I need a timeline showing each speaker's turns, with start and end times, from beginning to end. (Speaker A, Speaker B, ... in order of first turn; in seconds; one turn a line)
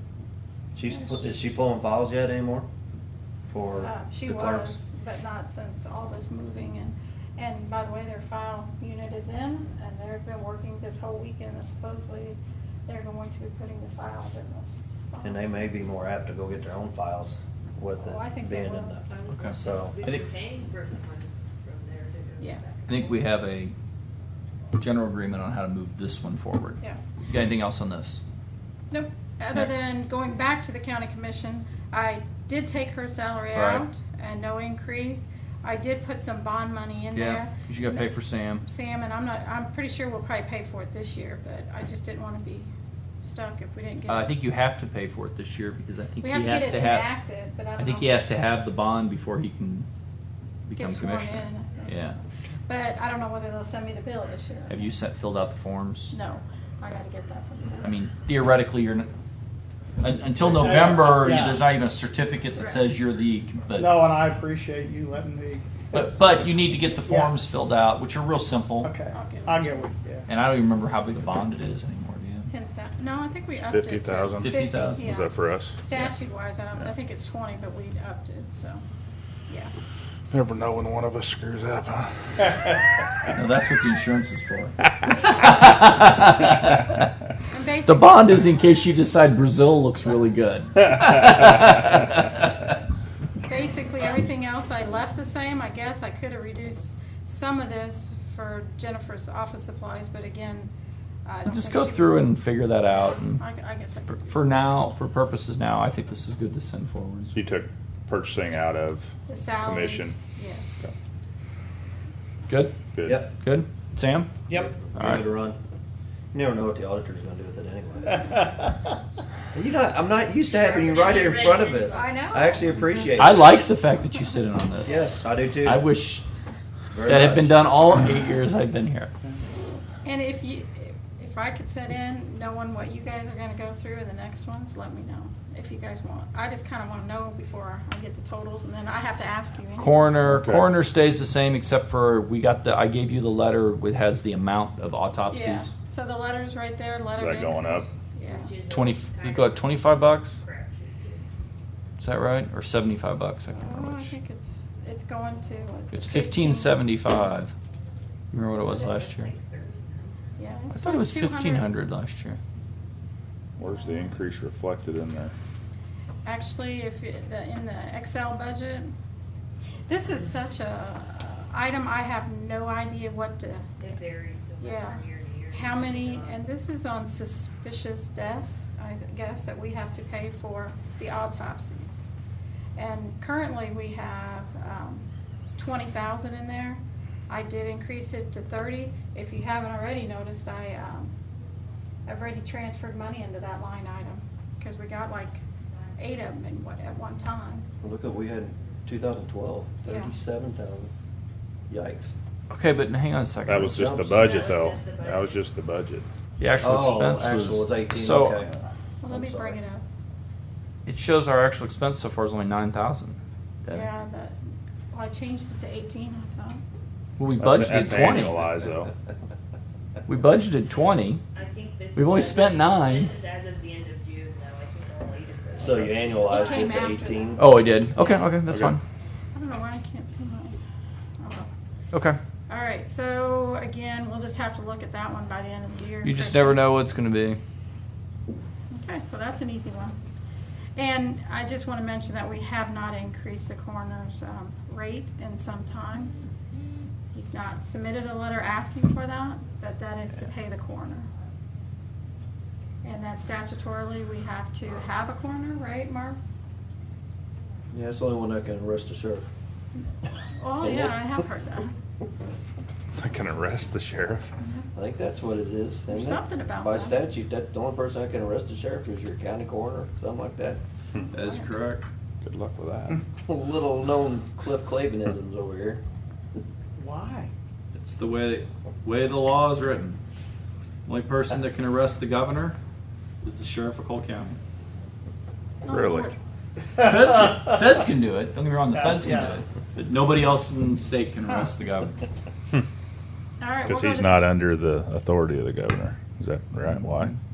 Speaker A: 0.7-2.7
Speaker A: 3.5-4.8
Speaker B: 3.8-15.7
Speaker A: 15.2-20.0
Speaker B: 18.0-19.0
Speaker C: 19.1-23.3
Speaker D: 19.3-20.3
Speaker D: 22.9-23.7
Speaker D: 24.8-28.2
Speaker B: 28.9-38.0
Speaker D: 29.5-29.8
Speaker D: 33.5-33.8
Speaker D: 37.1-38.6
Speaker B: 38.6-42.7
Speaker B: 43.2-44.3
Speaker D: 44.1-47.1
Speaker B: 46.2-48.3
Speaker D: 47.8-49.9
Speaker D: 50.7-52.2
Speaker B: 50.8-52.1
Speaker B: 52.6-54.9
Speaker D: 54.7-56.1
Speaker B: 56.1-57.8
Speaker D: 57.8-59.1
Speaker D: 60.0-64.0
Speaker E: 60.5-61.7
Speaker E: 63.7-66.0
Speaker D: 65.9-68.9
Speaker E: 67.0-67.4
Speaker E: 68.8-70.3
Speaker B: 69.1-69.9
Speaker D: 70.3-72.5
Speaker B: 72.5-78.8
Speaker F: 73.6-75.8
Speaker D: 74.4-75.2
Speaker F: 80.3-82.8
Speaker D: 83.3-87.1
Speaker B: 87.5-88.3
Speaker D: 87.8-92.7
Speaker B: 93.5-100.7
Speaker B: 101.2-102.3
Speaker D: 101.5-103.4
Speaker B: 103.2-104.6
Speaker D: 104.1-107.3
Speaker F: 107.3-110.2
Speaker B: 109.3-110.8
Speaker D: 112.5-114.3
Speaker F: 112.9-113.2
Speaker A: 113.0-113.3
Speaker E: 114.5-114.7
Speaker A: 114.5-115.6
Speaker A: 116.3-118.5
Speaker A: 119.5-123.5
Speaker C: 120.5-122.2
Speaker B: 121.8-122.7
Speaker D: 123.2-126.2
Speaker C: 123.2-124.1
Speaker A: 124.8-125.9
Speaker A: 126.9-127.6
Speaker D: 127.0-129.1
Speaker B: 130.0-140.1
Speaker D: 139.8-145.7
Speaker F: 140.2-140.8
Speaker B: 145.3-148.6
Speaker F: 147.1-147.9
Speaker C: 148.2-151.2
Speaker D: 148.7-150.4
Speaker D: 152.0-154.1
Speaker B: 153.6-156.8
Speaker D: 155.9-157.5
Speaker D: 158.3-159.3
Speaker C: 158.5-160.3
Speaker B: 160.4-161.7
Speaker D: 160.7-162.4
Speaker F: 163.6-165.3
Speaker B: 166.2-168.9
Speaker B: 169.9-173.9
Speaker C: 173.8-176.4
Speaker B: 174.6-182.0
Speaker B: 182.8-191.1
Speaker B: 192.1-195.4
Speaker B: 196.0-197.7
Speaker A: 197.8-200.9
Speaker B: 199.8-200.1
Speaker A: 201.7-202.2
Speaker D: 202.5-204.1
Speaker F: 203.4-206.1
Speaker A: 203.7-204.4
Speaker C: 204.2-205.3
Speaker D: 206.4-208.4
Speaker A: 206.6-209.6
Speaker B: 209.0-209.8
Speaker D: 210.8-213.9
Speaker B: 213.7-214.4
Speaker B: 214.9-216.6
Speaker D: 217.2-218.5
Speaker F: 217.4-218.9
Speaker D: 220.1-221.2
Speaker C: 221.3-226.9
Speaker D: 221.9-223.1
Speaker A: 225.6-227.5
Speaker B: 226.2-228.3
Speaker D: 227.4-228.8
Speaker F: 228.5-228.8
Speaker B: 229.3-230.6
Speaker B: 231.2-231.5
Speaker D: 231.9-232.2
Speaker B: 232.5-236.7
Speaker D: 236.0-237.4
Speaker B: 238.7-240.0
Speaker B: 240.8-246.1
Speaker B: 247.1-251.1
Speaker B: 252.8-256.2
Speaker A: 257.7-259.2
Speaker B: 260.4-261.7
Speaker A: 260.6-261.1
Speaker F: 262.9-264.3
Speaker A: 264.7-270.6
Speaker B: 265.9-267.0
Speaker D: 271.1-271.9
Speaker B: 271.2-271.4
Speaker F: 272.2-273.0
Speaker A: 273.2-275.8
Speaker E: 276.8-277.3
Speaker D: 277.7-280.0
Speaker D: 280.9-282.6
Speaker D: 283.2-284.4
Speaker B: 285.6-286.1
Speaker F: 285.7-286.1
Speaker D: 286.8-292.0
Speaker B: 293.4-294.3
Speaker F: 293.6-297.1